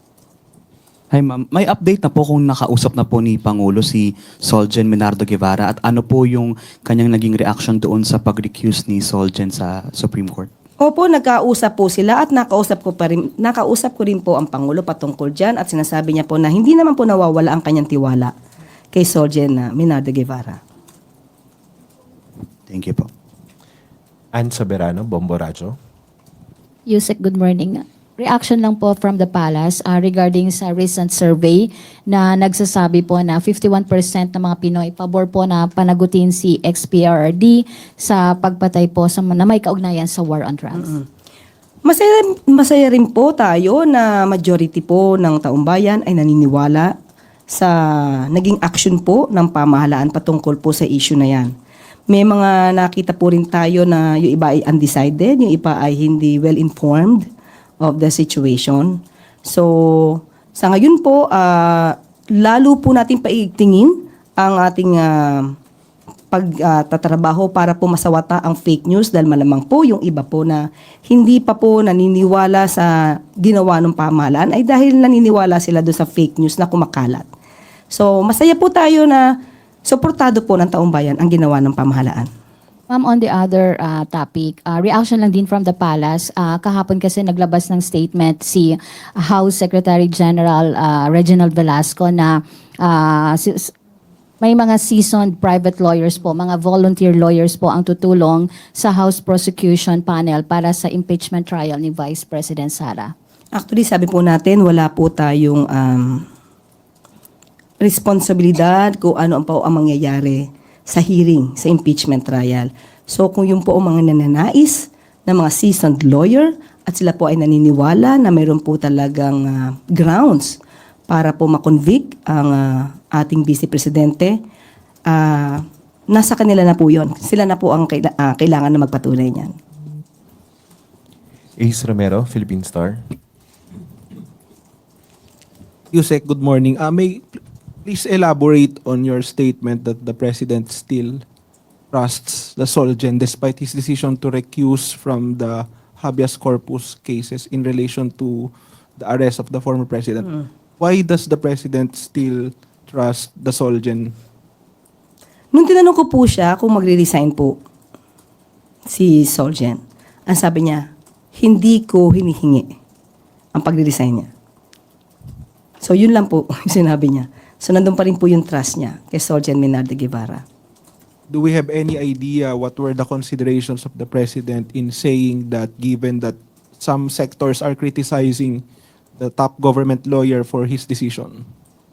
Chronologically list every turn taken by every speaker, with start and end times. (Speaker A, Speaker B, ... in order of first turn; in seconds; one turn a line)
Speaker A: 1.1-10.5
Speaker B: 10.8-18.3
Speaker B: 18.9-20.6
Speaker A: 22.7-23.1
Speaker C: 24.3-25.8
Speaker D: 26.9-40.9
Speaker B: 40.8-41.0
Speaker B: 41.9-46.9
Speaker B: 47.5-51.5
Speaker B: 52.1-57.3
Speaker B: 57.8-65.5
Speaker B: 66.3-77.3
Speaker B: 77.9-82.3
Speaker D: 82.9-93.7
Speaker D: 94.4-103.1
Speaker B: 103.5-106.2
Speaker B: 107.8-124.4
Speaker B: 125.1-129.5
Speaker C: 131.6-133.0
Speaker E: 135.9-137.2
Speaker E: 137.8-141.2
Speaker E: 141.9-154.1
Speaker B: 155.5-157.6
Speaker B: 158.9-162.7
Speaker B: 163.5-164.3
Speaker B: 165.8-170.4
Speaker E: 171.3-178.6
Speaker E: 179.2-181.4